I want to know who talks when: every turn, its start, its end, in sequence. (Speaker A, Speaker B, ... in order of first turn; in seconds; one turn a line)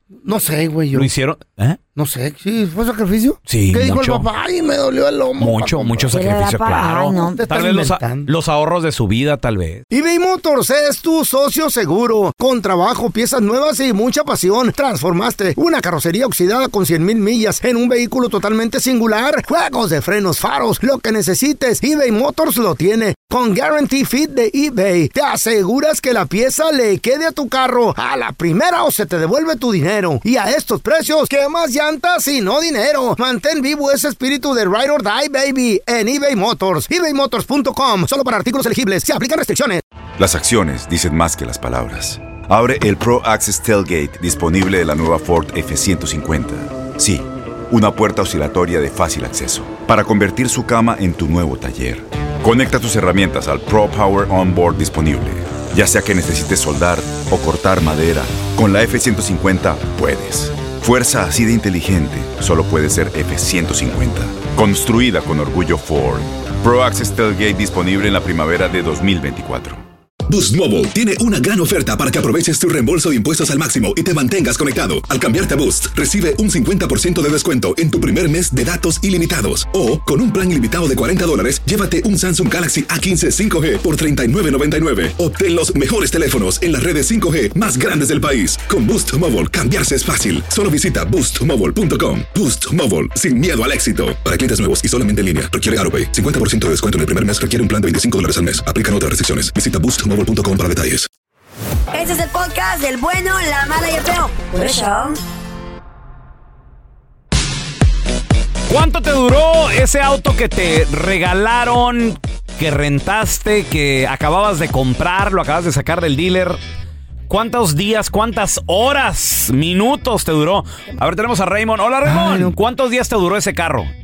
Speaker A: 0.2-1.1
Speaker B: 0.9-1.8
Speaker A: 1.9-6.2
Speaker B: 3.5-4.3
Speaker B: 5.4-9.8
Speaker C: 6.1-7.4
Speaker A: 7.2-8.3
Speaker A: 9.9-39.8
Speaker D: 40.2-69.8
Speaker E: 70.3-101.1
Speaker C: 101.9-105.2
Speaker B: 108.7-116.6
Speaker B: 117.3-123.9
Speaker A: 122.0-122.6